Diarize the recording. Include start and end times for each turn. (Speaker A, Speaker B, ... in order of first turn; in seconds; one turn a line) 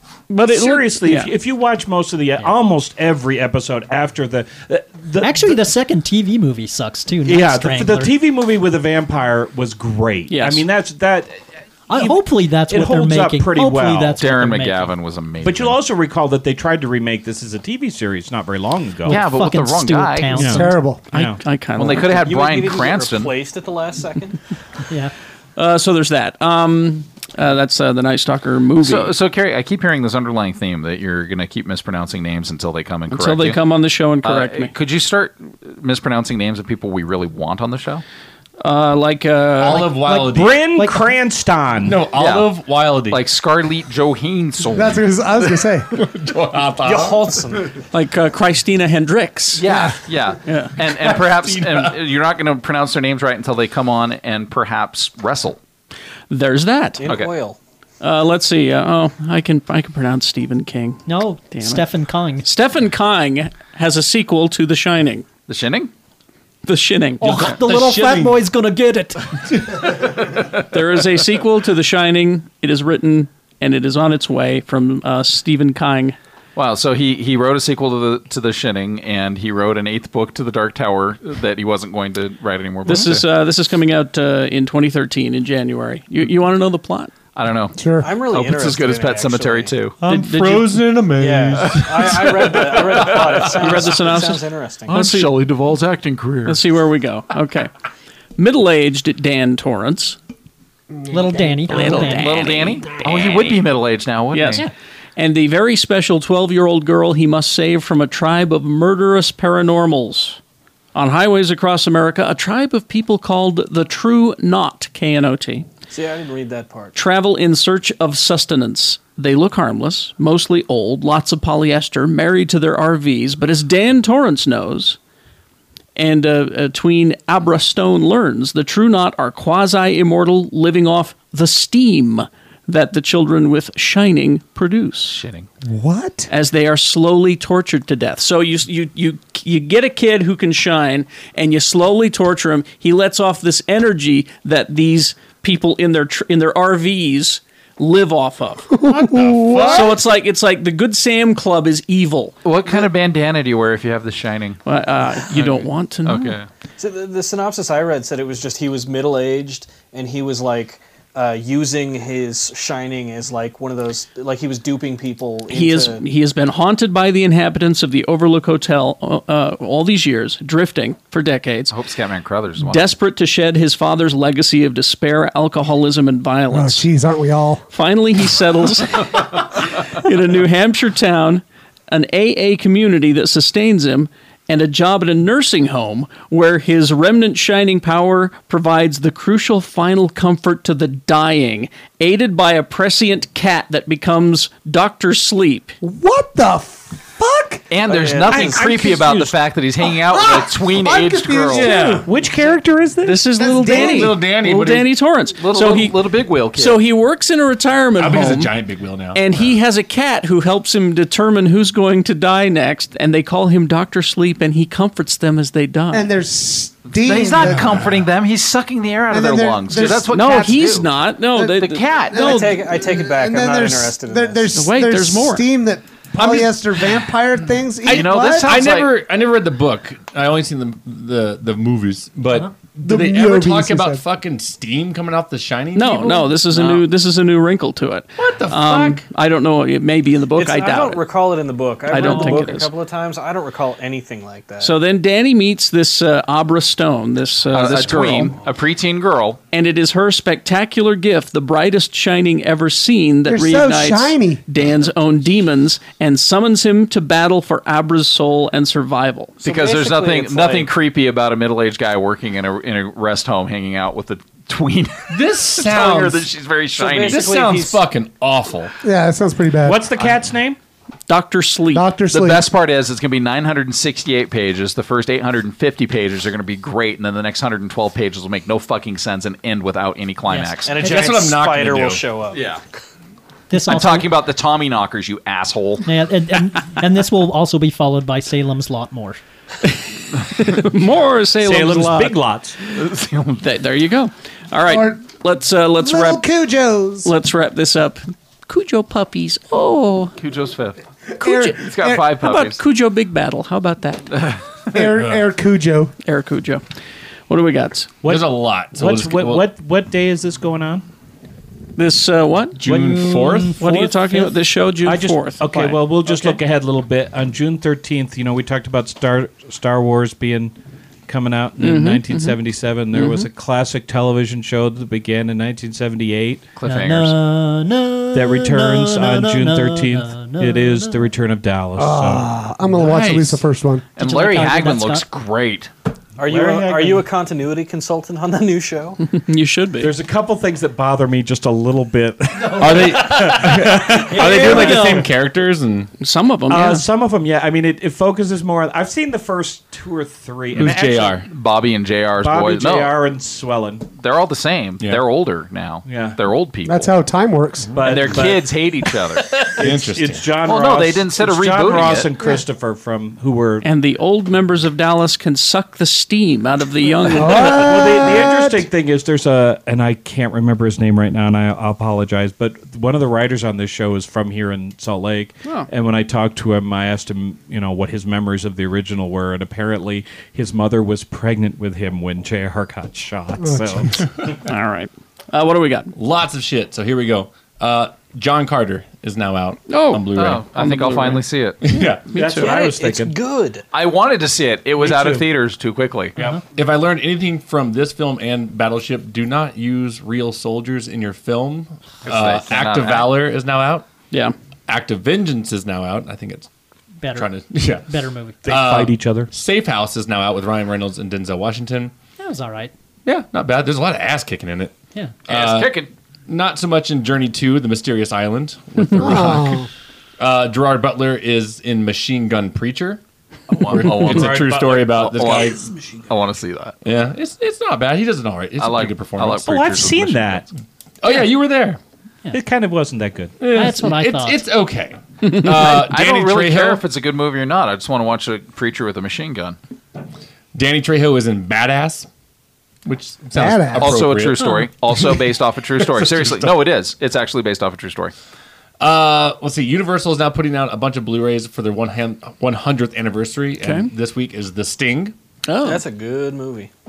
Speaker A: 0.3-1.3
Speaker B: 0.4-5.6
Speaker C: 5.2-8.2
Speaker B: 7.2-11.3
Speaker A: 10.3-10.7
Speaker C: 11.9-15.0
Speaker B: 11.9-14.2
Speaker D: 14.2-15.8
Speaker B: 15.4-19.2
Speaker C: 19.1-21.0
Speaker D: 19.1-20.6
Speaker E: 20.5-21.0
Speaker B: 21.1-21.4
Speaker A: 21.1-22.2
Speaker D: 21.8-23.3
Speaker F: 22.1-24.4
Speaker A: 25.6-29.1
Speaker D: 28.8-33.6
Speaker A: 33.1-34.7
Speaker D: 34.2-38.0
Speaker A: 38.6-39.9
Speaker G: 39.6-40.7
Speaker C: 40.0-41.2
Speaker B: 40.1-42.0
Speaker G: 41.8-43.2
Speaker D: 42.1-45.1
Speaker E: 44.7-45.9
Speaker G: 45.9-47.5
Speaker F: 46.8-47.7
Speaker A: 47.9-49.6
Speaker D: 49.6-55.6
Speaker E: 49.6-50.3
Speaker A: 50.5-50.7
Speaker G: 51.0-52.0
Speaker A: 56.3-57.0
Speaker F: 57.0-57.6
Speaker D: 57.0-57.3
Speaker A: 58.0-61.9
Speaker C: 61.1-62.5
Speaker A: 62.4-65.3
Speaker D: 65.5-65.9
Speaker A: 66.7-67.6
Speaker C: 67.2-69.9
Speaker G: 67.5-68.3
Speaker A: 70.7-76.2
Speaker D: 76.6-83.3
Speaker A: 82.9-87.1
Speaker D: 87.3-90.0
Speaker E: 87.8-88.1
Speaker F: 88.0-89.8
Speaker A: 90.0-90.7
Speaker G: 90.1-93.5
Speaker F: 91.2-95.0
Speaker D: 92.9-93.8
Speaker A: 93.3-95.3
Speaker D: 94.9-96.6
Speaker A: 96.5-97.7
Speaker A: 98.4-100.2
Speaker E: 100.9-102.2
Speaker C: 101.1-102.7
Speaker A: 101.7-102.8
Speaker D: 102.0-104.7
Speaker E: 102.9-103.6
Speaker A: 104.3-110.4
Speaker A: 111.0-115.7
Speaker F: 115.9-117.0
Speaker A: 117.0-125.0
Speaker A: 126.0-135.2
Speaker D: 135.1-135.5
Speaker E: 135.6-136.3
Speaker A: 136.3-148.7
Speaker E: 148.8-150.0
Speaker G: 148.8-150.0
Speaker A: 149.7-152.4
Speaker D: 152.4-154.6
Speaker A: 154.7-156.4
Speaker D: 155.3-156.5
Speaker F: 156.8-166.0
Speaker A: 165.5-171.7
Speaker D: 171.7-172.9
Speaker A: 172.6-176.9
Speaker E: 176.5-177.6
Speaker A: 177.7-195.8
Speaker E: 195.8-197.7
Speaker D: 197.7-201.8
Speaker F: 197.8-198.7
Speaker B: 198.3-199.3
Speaker E: 199.8-201.8
Speaker G: 201.5-202.1
Speaker B: 201.5-203.3
Speaker A: 203.0-208.6
Speaker E: 203.4-204.2
Speaker G: 203.7-205.0
Speaker D: 205.3-206.8
Speaker G: 208.0-209.6
Speaker A: 209.1-216.1
Speaker E: 215.9-217.9
Speaker D: 216.8-222.3
Speaker G: 217.3-218.0
Speaker E: 219.1-220.8
Speaker A: 220.1-222.5
Speaker E: 222.1-228.6
Speaker F: 222.1-224.5
Speaker A: 224.5-225.5
Speaker G: 226.2-226.6
Speaker D: 227.9-228.9
Speaker G: 227.9-236.4
Speaker E: 232.8-234.0
Speaker A: 235.7-241.0
Speaker D: 236.5-236.9
Speaker G: 238.2-239.1
Speaker F: 240.3-244.8
Speaker A: 241.9-242.7
Speaker C: 242.0-242.5
Speaker A: 244.6-248.3
Speaker D: 247.5-249.4
Speaker A: 249.5-259.4
Speaker E: 253.2-254.4
Speaker F: 259.4-260.7
Speaker D: 259.4-267.3
Speaker G: 265.1-266.3
Speaker F: 266.7-267.8
Speaker G: 267.1-268.7
Speaker E: 268.8-269.9
Speaker B: 269.6-270.6
Speaker A: 271.1-271.9
Speaker E: 271.7-272.5
Speaker D: 272.1-280.8
Speaker C: 280.3-281.1
Speaker F: 280.6-282.6
Speaker G: 280.9-282.0
Speaker D: 282.3-282.6
Speaker C: 283.5-284.1
Speaker D: 283.6-285.8
Speaker C: 285.9-289.2
Speaker A: 289.7-292.2
Speaker B: 291.4-292.6
Speaker D: 292.7-293.4
Speaker A: 293.4-296.3
Speaker E: 294.7-295.0
Speaker E: 295.8-297.1
Speaker A: 297.0-300.1
Speaker D: 300.2-300.8
Speaker E: 301.2-302.1
Speaker A: 301.2-304.1
Speaker D: 301.6-302.6
Speaker D: 304.1-304.8
Speaker E: 304.7-305.9
Speaker G: 304.9-305.3
Speaker A: 306.1-306.6
Speaker A: 307.3-307.9
Speaker B: 308.0-310.9
Speaker G: 308.1-309.5
Speaker A: 311.8-312.6
Speaker G: 312.6-313.6
Speaker B: 312.6-320.6
Speaker A: 313.6-316.4
Speaker B: 321.1-326.4
Speaker A: 321.6-322.4
Speaker A: 322.9-323.3
Speaker D: 326.6-327.2
Speaker C: 326.6-331.2
Speaker B: 328.1-332.3
Speaker E: 331.8-333.9
Speaker G: 332.9-333.4
Speaker D: 334.0-335.7
Speaker C: 334.0-335.1
Speaker F: 336.2-339.0
Speaker B: 336.2-337.1
Speaker A: 339.0-340.0
Speaker B: 339.8-345.1
Speaker G: 342.5-345.9
Speaker C: 344.1-345.1
Speaker A: 346.0-346.8
Speaker B: 346.5-351.2
Speaker G: 350.6-351.2
Speaker D: 351.3-353.0
Speaker B: 352.2-353.9
Speaker D: 354.0-357.0
Speaker G: 354.8-355.1
Speaker B: 355.9-356.2
Speaker E: 356.6-357.9
Speaker B: 357.8-358.6
Speaker D: 357.8-359.5
Speaker B: 359.6-363.7
Speaker G: 359.6-360.4
Speaker D: 360.4-362.1
Speaker E: 361.9-362.4
Speaker A: 363.6-368.1
Speaker E: 367.1-368.6
Speaker B: 367.1-384.1
Speaker E: 383.4-383.9
Speaker A: 384.4-385.9
Speaker G: 385.9-390.5
Speaker A: 389.7-392.7
Speaker D: 390.1-391.6
Speaker G: 391.6-392.1
Speaker B: 392.1-393.1
Speaker F: 392.3-393.6
Speaker D: 393.7-396.2
Speaker G: 396.5-403.9
Speaker D: 402.1-403.2
Speaker G: 404.7-406.5
Speaker C: 407.0-408.5
Speaker G: 407.1-407.9
Speaker B: 408.4-409.3
Speaker G: 408.4-411.9
Speaker C: 412.2-412.7
Speaker G: 413.1-414.7
Speaker D: 415.3-415.9
Speaker G: 415.3-419.7
Speaker E: 419.0-419.7
Speaker G: 420.2-423.0
Speaker D: 423.5-426.8
Speaker G: 423.6-425.7
Speaker B: 424.1-425.0
Speaker G: 426.8-429.7
Speaker D: 428.6-430.5
Speaker B: 429.4-430.4
Speaker G: 431.0-431.8
Speaker B: 432.3-433.4
Speaker G: 433.4-436.8
Speaker C: 433.4-434.5
Speaker D: 435.5-439.6
Speaker G: 440.5-442.1
Speaker G: 442.9-444.7
Speaker E: 443.3-444.0
Speaker D: 443.8-448.1
Speaker G: 445.8-446.7
Speaker G: 448.8-455.1
Speaker A: 453.6-453.9
Speaker A: 455.5-455.8
Speaker F: 455.6-456.7